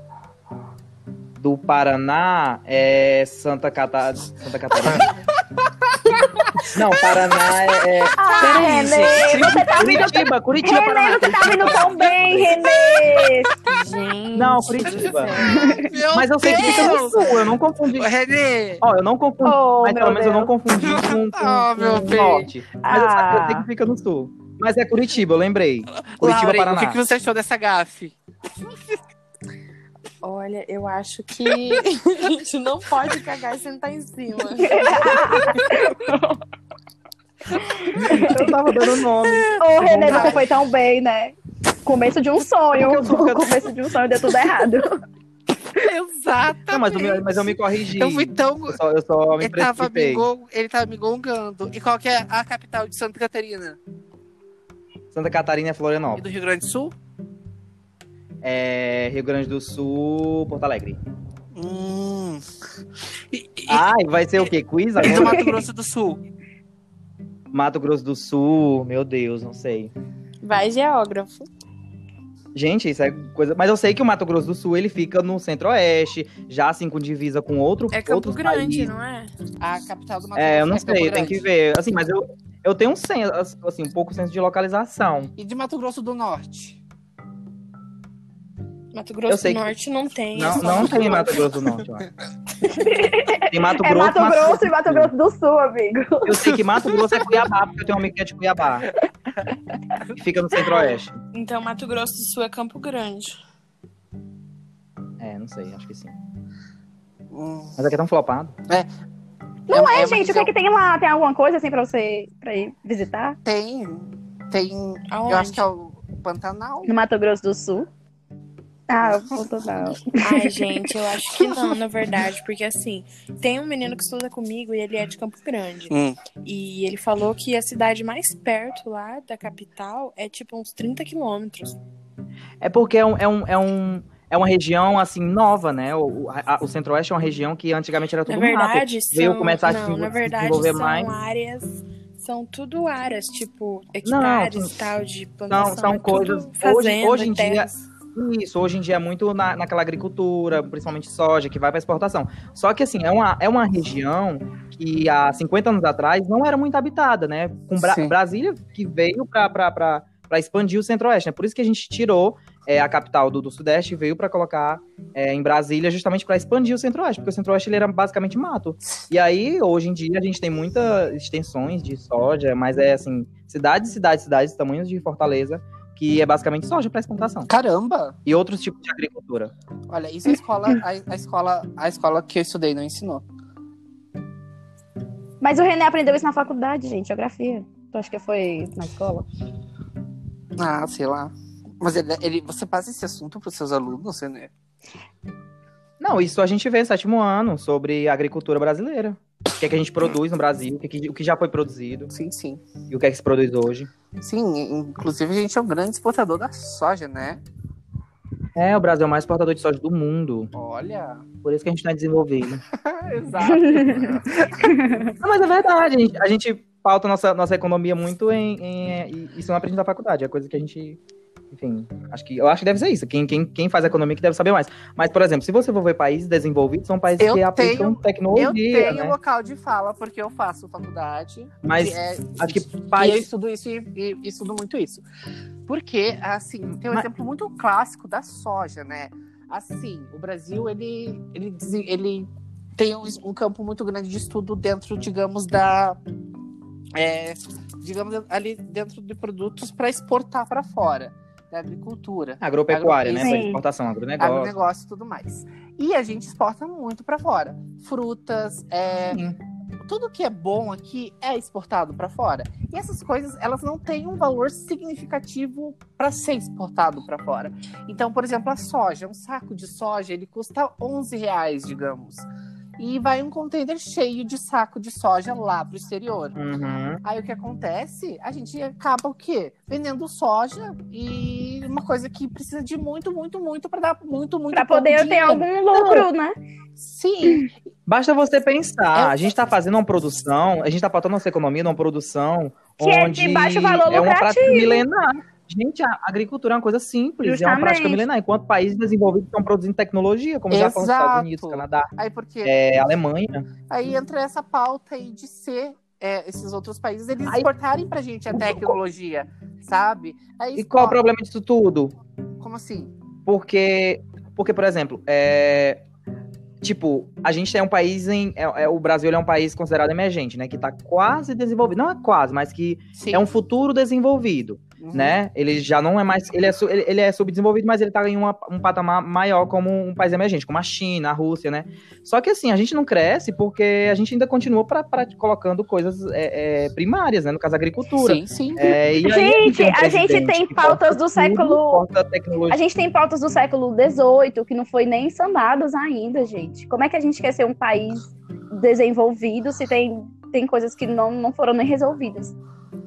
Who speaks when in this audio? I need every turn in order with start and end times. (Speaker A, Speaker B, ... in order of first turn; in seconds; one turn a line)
Speaker A: 1.4-5.1
Speaker B: 4.9-6.7
Speaker A: 6.7-8.2
Speaker C: 8.2-13.5
Speaker D: 8.4-9.8
Speaker B: 8.4-9.7
Speaker A: 9.8-12.6
Speaker B: 12.6-13.8
Speaker D: 13.6-15.8
Speaker A: 14.3-15.4
Speaker B: 14.8-18.8
Speaker C: 15.4-15.9
Speaker A: 16.1-18.1
Speaker C: 16.5-16.8
Speaker A: 18.8-27.0
Speaker C: 19.4-20.5
Speaker B: 20.8-22.5
Speaker C: 22.8-23.7
Speaker B: 26.0-29.0
Speaker D: 30.2-35.9
Speaker C: 34.6-36.4
Speaker C: 37.6-38.5
Speaker A: 38.0-40.4
Speaker B: 39.2-40.4
Speaker C: 39.6-45.0
Speaker A: 42.7-43.6
Speaker B: 45.7-48.8
Speaker A: 46.7-50.3
Speaker B: 49.4-53.8
Speaker A: 55.1-56.2
Speaker B: 56.1-57.0
Speaker A: 58.4-61.0
Speaker B: 61.5-62.4
Speaker B: 63.3-63.9
Speaker A: 63.7-65.5
Speaker B: 65.0-66.2
Speaker A: 67.5-69.9
Speaker D: 70.4-71.5
Speaker A: 72.5-78.9
Speaker D: 77.9-79.3
Speaker B: 79.6-81.4
Speaker A: 80.4-85.3
Speaker B: 85.4-86.8
Speaker D: 88.9-91.3
Speaker A: 89.3-89.7
Speaker A: 90.3-92.1
Speaker B: 90.7-91.3
Speaker C: 92.6-96.6
Speaker A: 93.5-95.1
Speaker A: 96.3-98.9
Speaker A: 100.1-101.2
Speaker D: 101.3-103.4
Speaker A: 105.2-106.2
Speaker B: 107.3-107.8
Speaker A: 107.8-108.5
Speaker B: 109.7-110.5
Speaker C: 109.7-113.4
Speaker B: 113.5-116.9
Speaker D: 115.1-115.6
Speaker C: 116.9-117.9
Speaker C: 118.9-120.6
Speaker D: 120.2-131.8
Speaker B: 121.3-121.8
Speaker B: 125.9-126.2
Speaker A: 132.6-141.1
Speaker D: 138.3-147.7
Speaker A: 144.1-144.8
Speaker A: 145.5-177.5
Speaker B: 157.8-158.1
Speaker B: 177.5-178.2
Speaker A: 178.3-179.5
Speaker B: 179.9-183.2
Speaker C: 185.4-189.3
Speaker B: 190.6-194.5
Speaker A: 196.0-202.1
Speaker B: 202.1-202.6
Speaker A: 202.9-203.9
Speaker B: 204.2-207.4
Speaker A: 208.6-210.5
Speaker B: 210.5-211.3
Speaker A: 211.4-212.6
Speaker B: 212.7-215.0
Speaker C: 213.5-215.1
Speaker A: 215.2-221.0
Speaker A: 221.5-229.2
Speaker B: 227.2-235.0
Speaker A: 231.6-233.3
Speaker B: 235.7-246.0
Speaker B: 246.9-253.5
Speaker A: 252.4-254.5
Speaker C: 253.2-253.6
Speaker B: 254.2-259.2
Speaker B: 259.8-272.3
Speaker B: 272.8-276.4
Speaker A: 276.4-277.0
Speaker B: 277.0-285.5
Speaker C: 284.5-286.4
Speaker A: 285.8-286.0
Speaker B: 286.8-287.5
Speaker A: 287.9-301.9
Speaker B: 288.9-289.4
Speaker C: 292.8-294.9
Speaker C: 297.2-298.0
Speaker B: 300.5-302.6
Speaker A: 302.4-303.5
Speaker B: 303.7-311.0
Speaker A: 308.3-308.8
Speaker A: 310.6-311.9
Speaker B: 312.4-312.9
Speaker A: 313.3-315.8
Speaker A: 316.6-342.6
Speaker B: 323.0-323.2
Speaker B: 324.8-325.2
Speaker B: 338.0-338.8
Speaker C: 339.0-341.9
Speaker C: 342.5-352.3